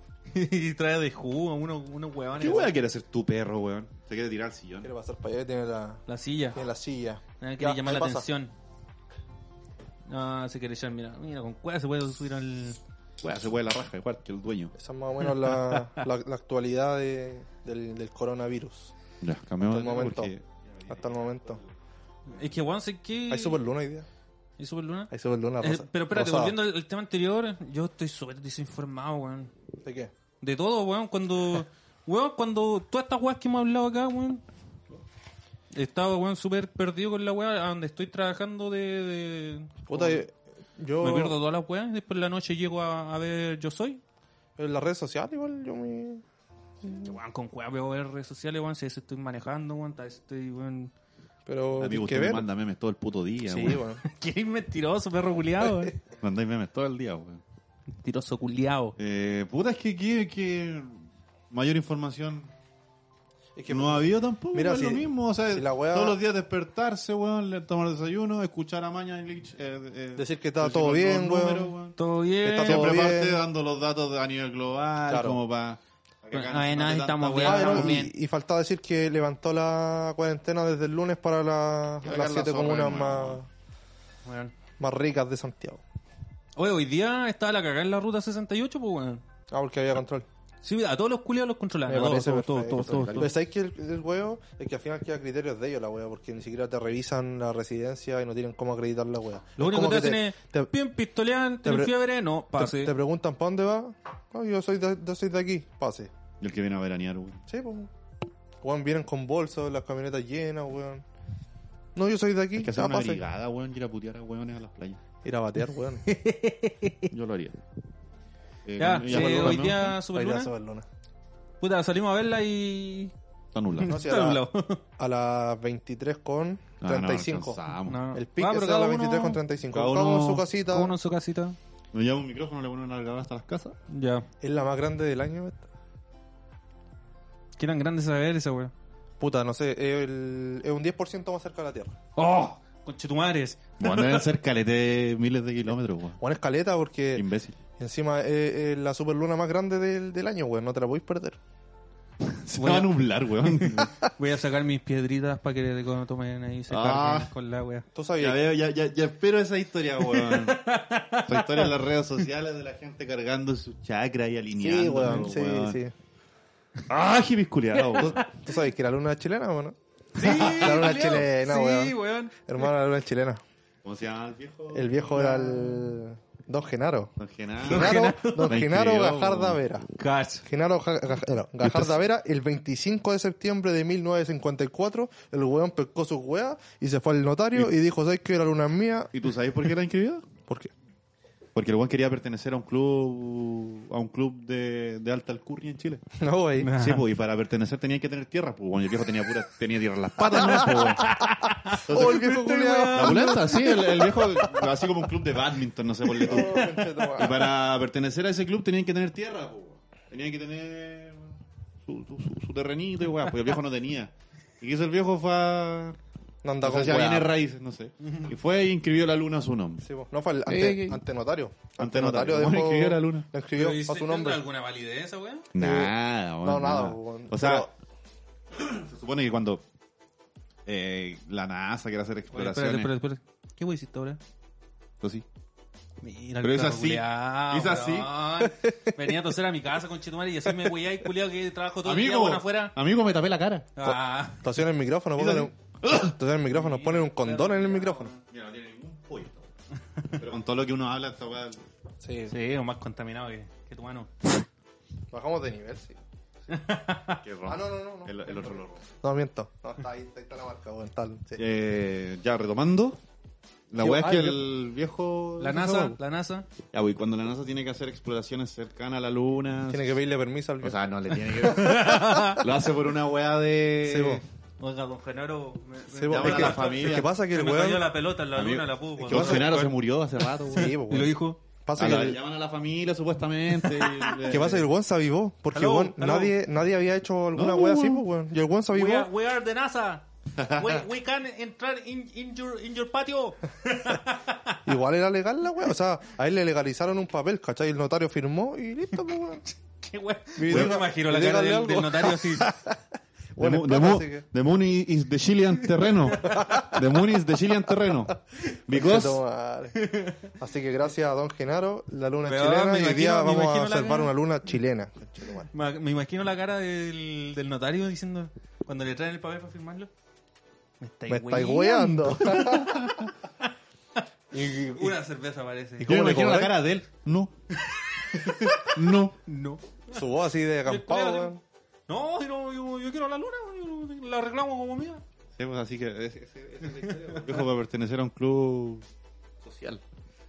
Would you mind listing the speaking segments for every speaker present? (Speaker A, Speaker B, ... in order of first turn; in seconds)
Speaker A: 0.3-2.7, 6.1-6.6, 7.4-8.5, 10.1-12.8, 15.2-16.0, 22.3-23.6, 24.6-29.5, 30.4-34.4, 35.7-40.2, 41.0-44.0, 46.9-50.9, 54.0-56.0, 57.9-59.0, 72.0-73.0, 76.3-78.1, 84.2-84.5, 86.5-89.2, 90.6-93.3, 99.6-102.9, 116.0-117.1, 118.8-120.5, 121.6-123.1, 123.8-124.8, 127.8-129.4, 130.7-131.6, 133.9-134.3, 137.6-138.7, 142.2-144.1, 152.5-157.8, 160.0-161.7, 167.9-168.5, 170.2-172.4, 177.6-178.6, 179.9-180.4, 196.6-197.0, 200.8-203.8, 218.0-218.3, 223.5-225.5, 232.3-234.2, 236.0-242.7, 243.8-244.6, 246.5-248.2, 252.3-254.3, 256.5-257.2, 263.8-264.4, 265.4-266.5, 271.2-272.4, 274.6-281.4, 283.6-284.2, 285.5-286.3, 288.7-294.6, 299.4-302.5, 309.8-310.3, 312.2-314.1, 315.5-319.9, 320.8-322.8, 324.5-325.9, 327.7-330.0, 330.6-331.3, 331.9-335.0
Speaker B: 2.4-4.9, 13.2-14.7, 19.2-21.7, 51.8-53.8, 56.1-57.4, 59.0-62.5, 63.7-72.0, 72.7-78.0, 82.0-83.4, 92.9-93.2, 106.4-107.4, 112.6-115.0, 117.1-117.6, 118.7-119.9, 123.5-124.0, 126.8-128.0, 129.7-130.4, 131.9-133.8, 143.8-146.2, 147.1-147.6, 152.5-154.0, 156.7-157.3, 158.2-165.8, 166.9-168.2, 170.3-171.0, 173.8-175.6, 177.2-179.6, 189.1-190.2, 191.5-196.0, 196.8-201.1, 201.8-202.2, 202.9-216.0, 216.6-219.8, 220.4-221.0, 221.8-223.3, 225.5-227.7, 228.5-229.6, 230.7-232.9, 236.4-238.1, 241.8-243.9, 245.2-246.2, 248.3-249.5, 250.0-251.6, 257.2-258.9, 261.4-263.0, 263.7-266.0, 266.7-269.9, 270.6-274.2, 276.1-277.1, 278.3-280.7, 281.8-284.7, 287.3-288.0, 290.4-290.8, 300.5-300.8, 303.4-309.2, 322.5-323.0, 325.9-327.3, 328.1-329.2, 335.4-338.8, 339.4-339.8
Speaker C: 4.8-6.0, 6.5-8.3, 14.7-18.9, 19.7-20.3, 20.9-21.6, 23.3-24.1, 25.1-26.6, 29.8-30.1, 39.9-41.4, 44.6-46.2, 51.5-52.5, 53.4-54.0, 55.6-55.9, 63.5-66.2, 70.2-71.7, 72.4-73.4, 75.1-75.4, 77.4-83.5, 84.8-85.8, 89.5-90.2, 91.8-100.7, 101.6-101.9, 102.5-106.1, 107.5-107.9, 108.6-111.0, 111.9-113.2, 115.2-116.0, 119.1-120.9, 123.9-124.4, 125.0-127.6, 128.1-130.9, 134.4-135.7, 139.2-142.0, 146.2-147.2, 147.8-151.4, 157.9-158.5, 164.6-165.9, 168.2-169.8, 170.3-173.4, 174.7-179.9, 180.4-189.1, 196.2-196.7, 200.4-200.9, 201.8-204.6, 206.2-207.5, 216.4-217.3, 219.8-224.4, 225.6-227.7, 238.4-239.0, 244.4-248.1, 252.0-252.3, 255.1-256.0, 257.4-261.4, 269.7-270.8, 273.8-274.2, 275.9-277.9, 279.1-279.4, 280.5-282.2, 284.3-289.1, 294.6-299.4, 300.4-302.8, 303.3-304.2, 306.2-306.8, 308.7-315.5, 321.1-322.9, 324.3-325.0, 325.8-326.6, 329.9-331.4